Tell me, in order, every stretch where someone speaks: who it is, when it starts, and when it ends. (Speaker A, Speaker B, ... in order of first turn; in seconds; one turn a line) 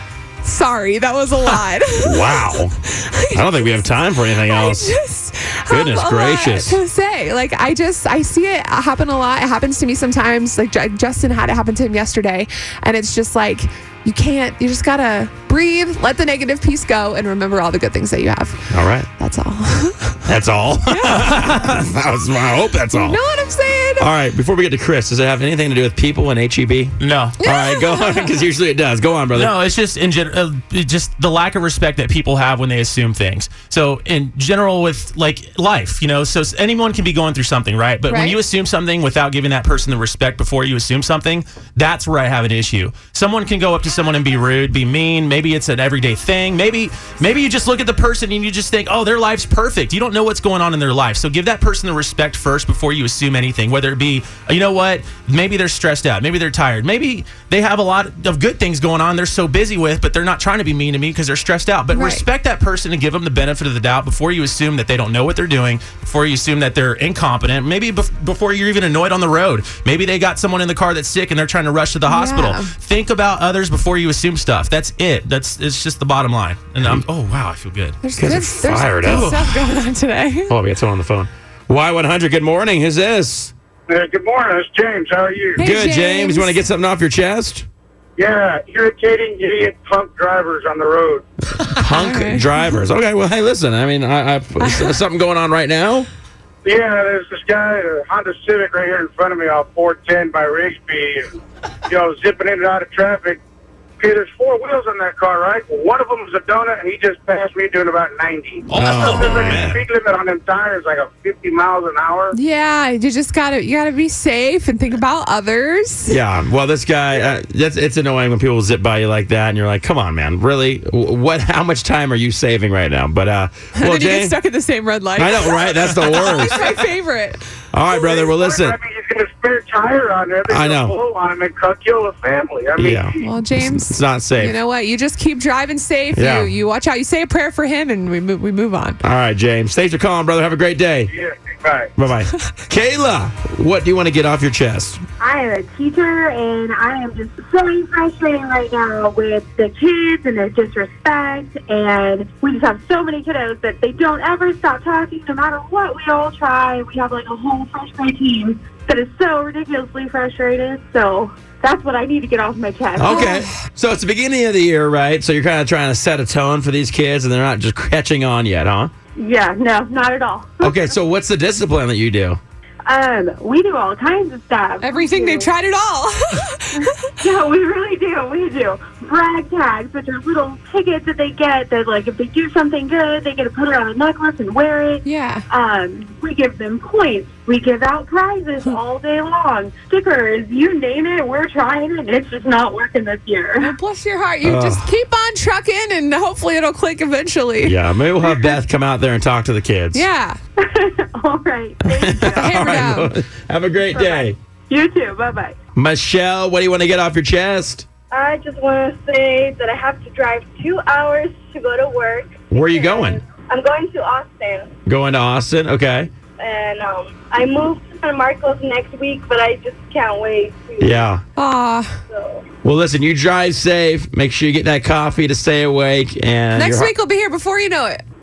Speaker A: 0.4-20.2
Speaker B: 2.0-2.7
Speaker B: 3.3-5.0
Speaker B: 5.7-6.8
Speaker B: 18.7-19.1
Speaker B: 20.2-23.2
Speaker A: 20.9-21.4
Speaker C: 21.1-21.7
Speaker A: 22.9-24.1
Speaker B: 24.0-29.6
Speaker C: 27.0-27.4
Speaker A: 27.4-28.4
Speaker C: 29.3-78.0
Speaker A: 38.1-38.4
Speaker A: 61.9-62.2
Speaker A: 72.1-72.7
Speaker A: 78.0-80.6
Speaker B: 78.2-79.4
Speaker C: 79.0-79.5
Speaker B: 80.5-83.5
Speaker D: 83.9-85.6
Speaker A: 85.6-86.6
Speaker B: 85.6-87.7
Speaker D: 88.2-91.3
Speaker A: 91.6-92.8
Speaker B: 91.7-96.1
Speaker A: 94.6-95.0
Speaker D: 96.6-101.2
Speaker D: 101.9-103.4
Speaker D: 104.0-112.4
Speaker C: 108.7-109.7
Speaker B: 108.7-109.8
Speaker A: 112.3-116.2
Speaker B: 116.1-124.4
Speaker A: 123.8-127.5
Speaker B: 125.2-126.8
Speaker B: 127.7-128.8
Speaker D: 127.9-133.2
Speaker B: 130.5-131.0
Speaker B: 132.8-134.6
Speaker A: 133.2-139.0
Speaker B: 136.1-136.5
Speaker B: 139.0-141.1
Speaker D: 141.1-141.9
Speaker B: 142.0-145.0
Speaker E: 145.2-163.2
Speaker B: 163.0-168.9
Speaker A: 163.1-163.6
Speaker E: 169.2-170.8
Speaker B: 170.6-172.4
Speaker E: 172.9-175.5
Speaker A: 174.8-177.2
Speaker E: 177.2-193.7
Speaker A: 185.0-185.5
Speaker A: 193.6-197.8
Speaker B: 194.4-194.9
Speaker B: 197.6-200.1
Speaker A: 199.9-200.4
Speaker E: 200.7-202.5
Speaker B: 201.8-204.4
Speaker A: 202.3-203.1
Speaker E: 204.7-205.6
Speaker B: 205.8-207.9
Speaker F: 208.1-214.7
Speaker B: 212.5-213.2
Speaker B: 214.9-216.1
Speaker F: 216.4-221.1
Speaker B: 220.8-221.2
Speaker A: 221.4-222.0
Speaker F: 222.1-222.4
Speaker B: 222.6-226.9
Speaker A: 226.5-228.0